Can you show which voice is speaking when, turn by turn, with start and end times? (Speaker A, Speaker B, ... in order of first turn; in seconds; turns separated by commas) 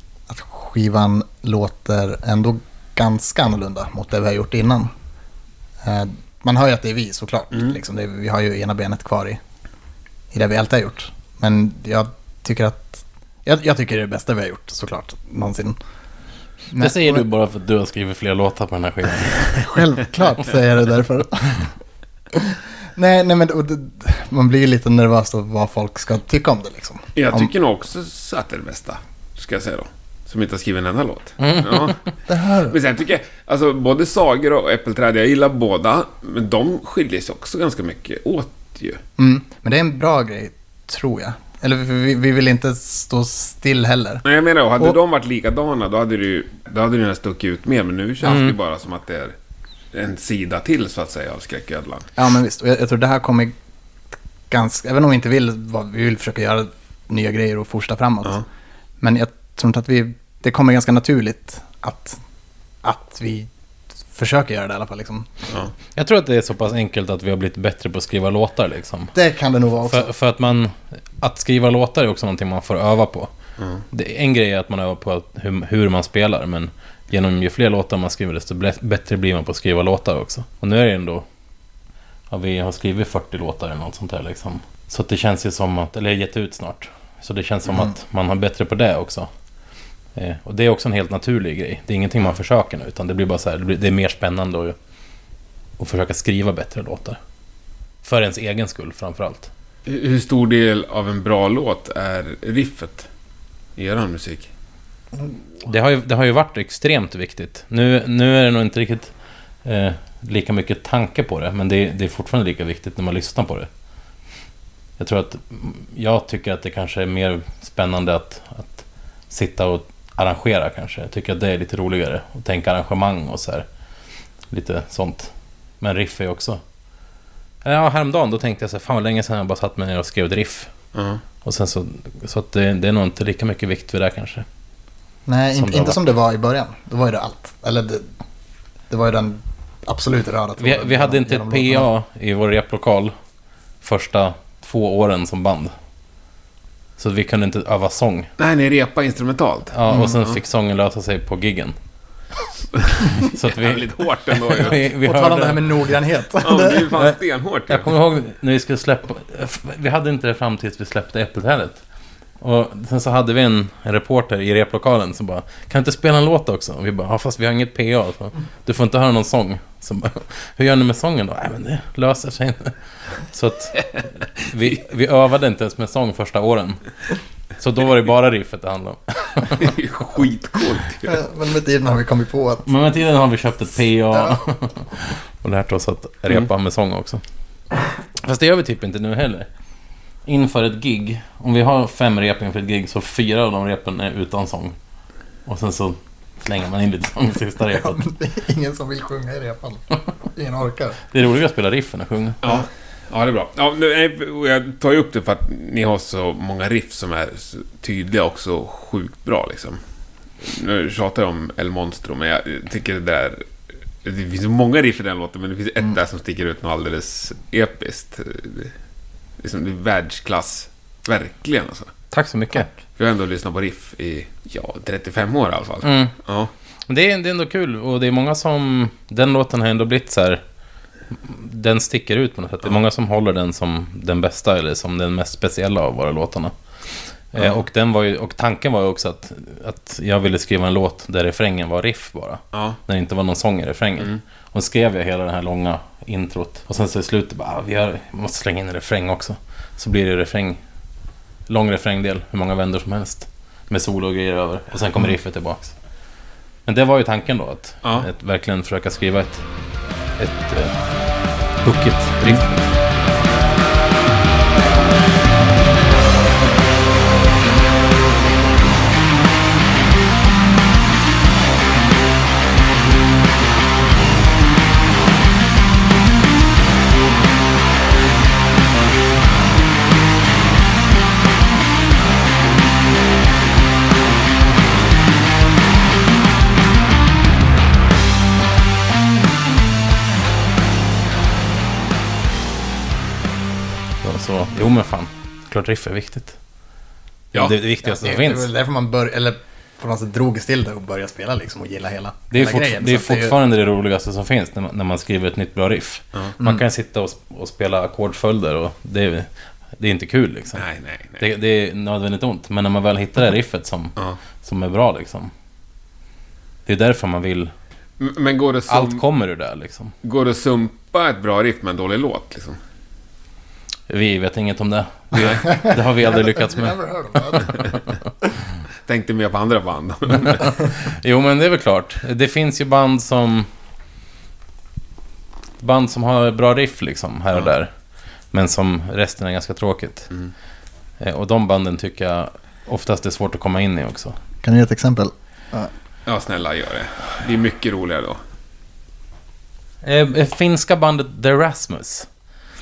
Speaker A: 0.3-4.9, Speaker A: 5.8-9.4, Speaker A: 10.3-15.8, Speaker A: 16.7-17.2, Speaker B: 16.8-19.6, Speaker A: 19.5-21.7, Speaker A: 22.3-27.5, Speaker C: 27.1-32.0, Speaker B: 31.4-31.9, Speaker A: 32.3-32.8, Speaker C: 32.7-39.0, Speaker A: 39.2-44.2, Speaker C: 44.2-49.4, Speaker B: 48.2-48.5, Speaker C: 49.9-52.1, Speaker A: 52.2-53.5, Speaker A: 54.5-58.4, Speaker A: 59.0-62.2, Speaker A: 62.8-63.5, Speaker A: 64.1-65.3, Speaker B: 65.9-69.1, Speaker A: 69.1-70.1, Speaker B: 69.8-73.3, Speaker B: 73.9-81.2, Speaker B: 82.3-89.3, Speaker B: 90.1-94.8, Speaker B: 95.8-97.2, Speaker B: 98.0-99.5, Speaker C: 99.8-103.1, Speaker C: 103.8-104.5, Speaker B: 105.6-109.1, Speaker B: 109.6-113.7, Speaker B: 115.0-123.7, Speaker B: 124.5-126.6, Speaker B: 127.6-130.7, Speaker C: 130.9-131.2, Speaker B: 131.4-134.4, Speaker A: 135.2-138.1, Speaker B: 135.6-136.0, Speaker A: 138.9-141.9, Speaker B: 140.6-143.1, Speaker B: 143.8-145.7, Speaker B: 147.0-148.3, Speaker C: 148.4-150.4, Speaker B: 149.7-151.8, Speaker C: 152.8-154.8, Speaker B: 153.2-155.7, Speaker A: 155.0-157.0, Speaker C: 156.4-157.9, Speaker B: 157.7-161.8, Speaker B: 162.4-172.7, Speaker B: 173.3-173.8, Speaker B: 174.3-176.8, Speaker B: 177.6-179.7, Speaker C: 179.5-181.2, Speaker A: 181.1-182.7, Speaker B: 182.7-187.2, Speaker B: 188.2-189.5, Speaker B: 190.2-194.7, Speaker B: 195.4-198.0, Speaker A: 197.7-201.0, Speaker B: 201.1-202.4, Speaker C: 202.4-209.8, Speaker C: 210.4-213.4, Speaker C: 214.0-218.7, Speaker C: 219.4-221.9, Speaker B: 222.1-222.7, Speaker C: 223.0-226.5, Speaker B: 225.8-226.1, Speaker B: 226.9-230.4, Speaker B: 231.2-236.5, Speaker B: 237.3-250.6, Speaker C: 242.5-242.8, Speaker B: 251.5-255.7, Speaker B: 256.6-259.4, Speaker B: 260.2-260.8, Speaker B: 261.6-262.7, Speaker B: 294.0-296.4, Speaker B: 297.3-298.5, Speaker A: 297.8-303.4, Speaker B: 302.3-310.6, Speaker C: 310.6-311.2, Speaker B: 311.2-315.3, Speaker B: 316.6-317.5, Speaker C: 318.0-319.0, Speaker B: 318.7-319.9, Speaker C: 320.0-322.6, Speaker B: 323.9-326.8, Speaker A: 325.5-327.6, Speaker B: 327.3-327.7, Speaker C: 328.9-330.5, Speaker B: 330.2-333.5, Speaker B: 335.6-337.7, Speaker B: 338.3-340.1, Speaker B: 341.0-344.2, Speaker A: 344.4-345.7, Speaker C: 346.1-348.2, Speaker B: 349.8-352.1